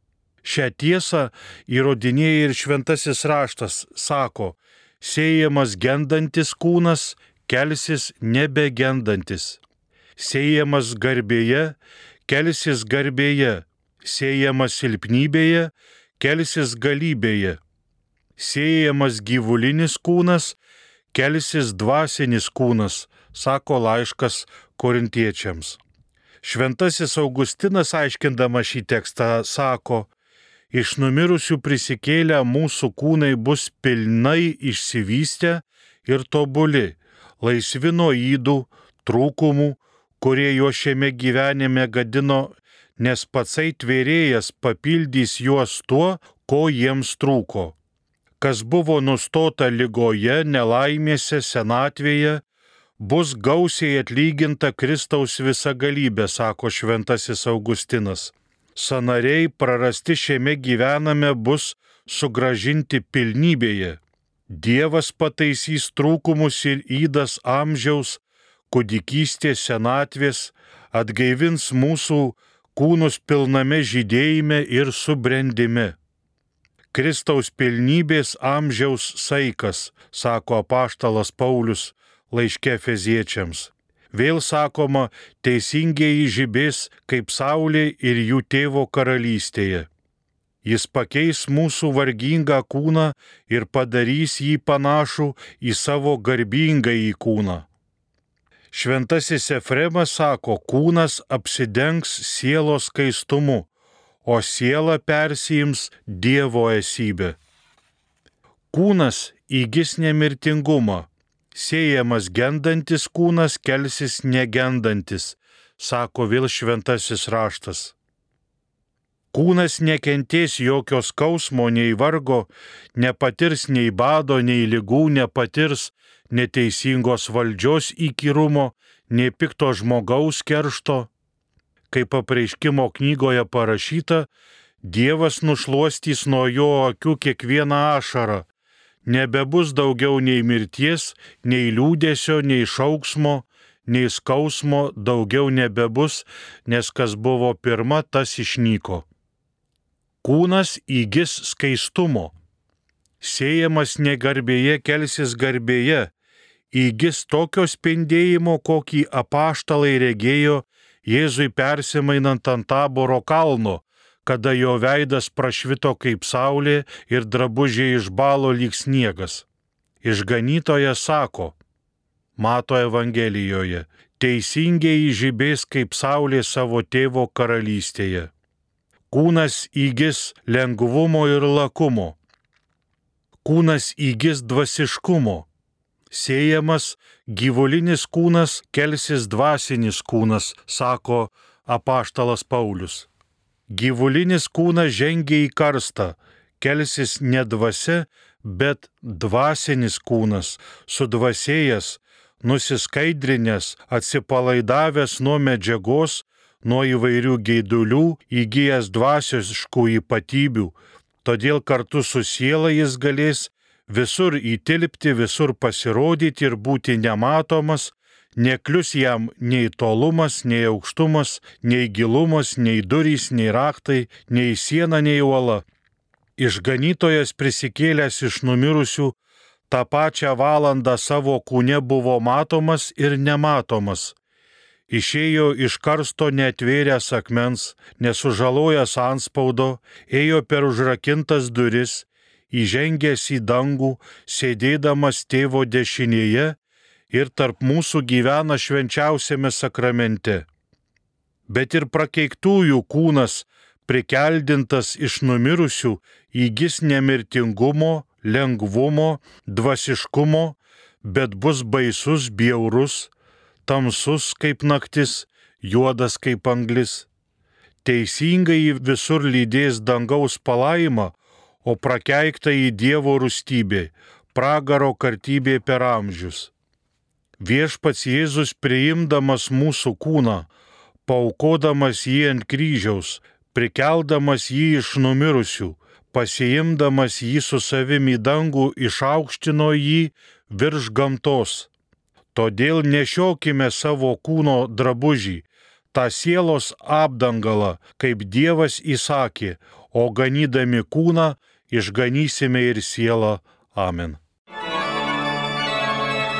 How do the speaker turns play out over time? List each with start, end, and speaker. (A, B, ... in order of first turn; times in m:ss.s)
0:00.4-0:09.6 A
0:10.2-0:17.6 A
0:18.4-0:20.6 A
0:21.1-0:25.8 A
0:26.4-0:30.1 A
0:30.7-0:47.8 A
0:48.4-0:52.4 A
0:53.0-1:04.0 A
1:04.5-1:16.0 A
1:16.9-1:29.9 A
1:30.6-1:37.7 A
1:38.7-1:43.7 A
1:44.2-1:47.4 A
1:48.7-1:58.0 A
1:59.3-2:11.1 A
2:11.9-2:14.3 A
2:14.8-2:18.4 A
2:19.1-2:29.0 A
2:30.2-2:32.3 A
2:33.2-2:36.1 A
2:36.7-2:49.4 A
2:50.0-2:51.6 A
2:52.4-2:58.3 A
2:59.1-3:02.2 A
3:03.4-3:05.5 A
3:06.1-3:13.1 A
3:13.7-3:45.6 A
3:46.4-3:49.2 A
3:49.7-3:54.2 A
3:54.9-4:06.6 A
4:07.1-4:10.5 A
4:11.5-4:23.1 A
4:23.6-4:27.1 A
4:27.8-4:36.5 A
4:37.4-4:40.5 A
4:41.1-4:51.7 A
4:52.4-5:04.2 A